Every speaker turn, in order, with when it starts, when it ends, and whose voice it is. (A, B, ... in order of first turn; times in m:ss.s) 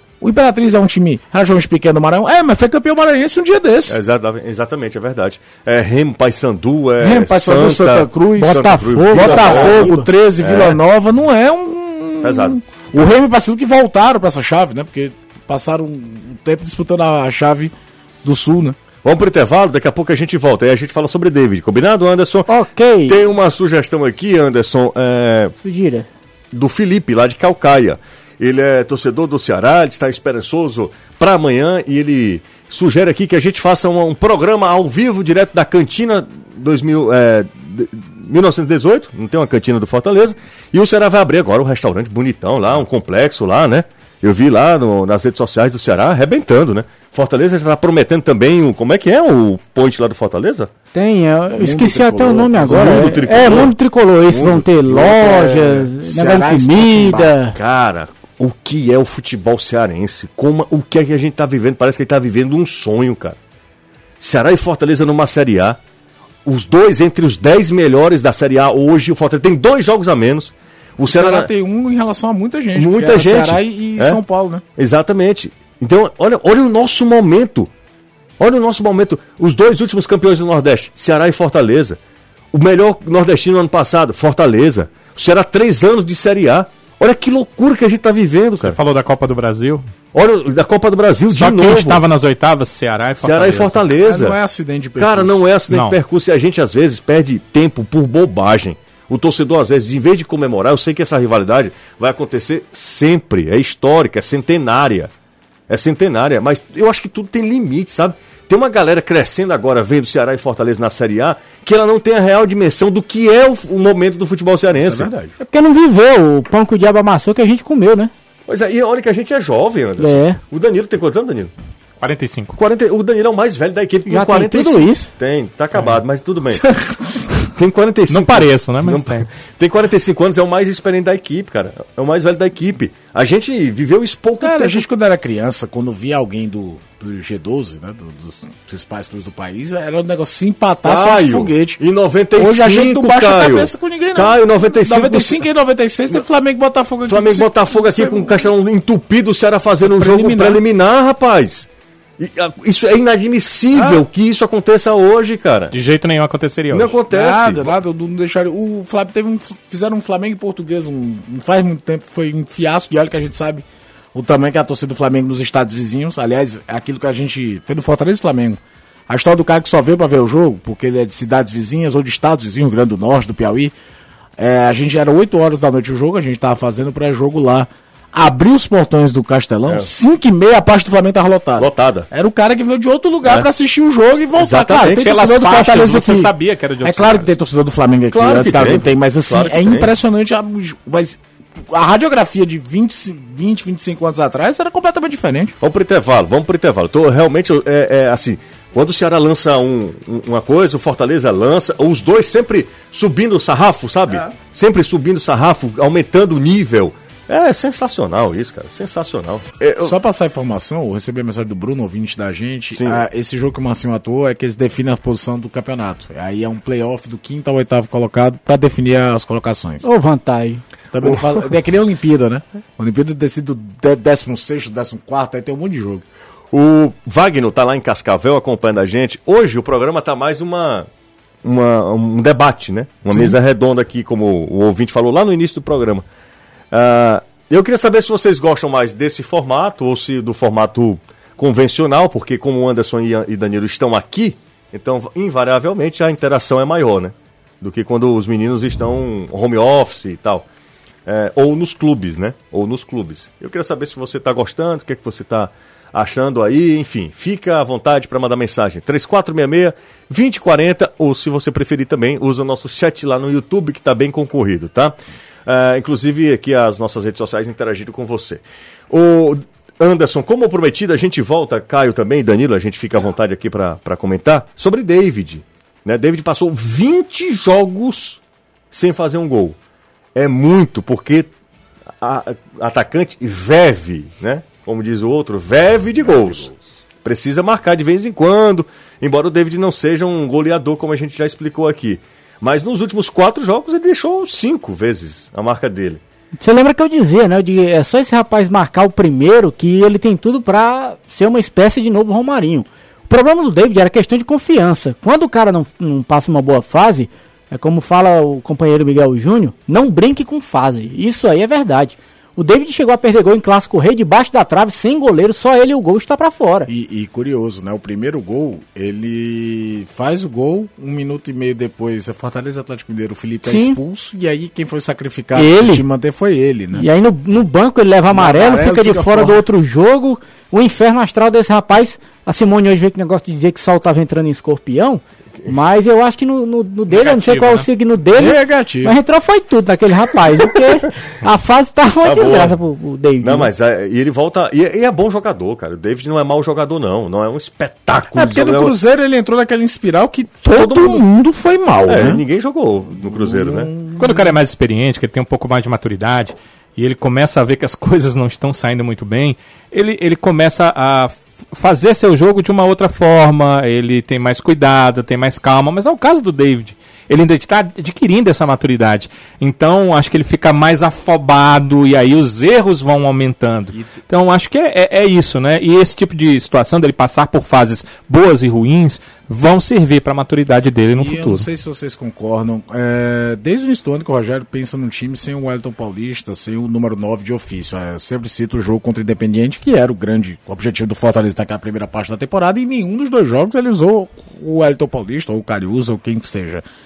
0:00.2-0:04.0 A
0:03.9-0:10.8 B
0:07.0-0:18.8 A
0:08.4-0:10.1 C
0:12.2-0:12.6 B
0:19.0-0:22.5 B
0:22.5-0:23.2 C
0:23.0-0:25.5 B
0:25.6-0:26.1 C
0:26.5-0:50.7 B
0:50.9-0:57.6 C
0:51.6-0:53.7 A
0:52.6-0:53.7 B
0:54.3-0:54.6 B
0:54.8-0:57.3 A
0:57.5-1:03.4 B
1:04.2-1:05.8 B
1:06.4-1:11.5 B
1:11.0-1:14.6 A
1:12.7-1:14.2 B
1:14.8-1:17.7 B
1:18.4-1:22.0 B
1:22.5-1:28.8 B
1:28.6-1:29.8 D
1:30.1-1:32.0 B
1:31.3-1:33.8 D
1:33.2-1:34.4 B
1:34.0-1:35.4 A
1:35.0-1:45.1 B
1:35.7-1:36.0 D
1:45.7-1:55.1 B
1:54.7-1:55.3 A
1:55.4-1:58.1 C
1:58.5-2:01.5 B
2:00.0-2:00.4 C
2:02.0-2:02.6 D
2:02.6-2:06.6 B
2:04.1-2:05.1 C
2:07.5-2:14.8 B
2:08.1-2:09.3 D
2:14.4-2:21.8 A
2:20.8-2:25.4 B
2:22.4-2:28.5 A
2:27.1-2:31.7 B
2:29.8-2:30.6 A
2:32.2-2:35.8 B
2:33.7-2:34.0 A
2:35.7-2:37.0 D
2:36.7-2:37.7 B
2:37.1-2:53.7 A
2:54.4-3:15.6 A
3:01.6-3:02.1 B
3:04.4-3:05.0 B
3:04.8-3:07.3 D
3:08.1-3:09.9 B
3:15.6-3:29.9 B
3:29.8-3:39.8 A
3:32.8-3:33.0 B
3:39.8-3:40.6 C
3:40.9-3:46.0 A
3:46.5-3:50.9 B
3:51.4-3:56.0 B
3:53.1-3:53.4 A
3:56.7-4:10.5 B
4:11.0-4:38.2 B
4:38.7-4:39.6 B
4:40.1-4:41.3 B
4:42.0-4:56.0 B
4:56.4-5:16.7 C
5:16.7-5:26.9 A
5:23.5-5:23.8 C
5:25.4-5:25.8 C
5:26.7-5:43.5 C
5:28.1-5:29.4 A
5:36.9-5:37.7 D
5:38.1-5:39.0 A
5:42.0-5:42.6 B
5:43.2-5:48.7 B
5:47.9-5:52.2 A
5:50.5-5:51.0 B
5:51.8-5:53.7 B
5:53.0-5:54.3 A
5:54.0-6:21.4 D
6:21.0-6:36.6 A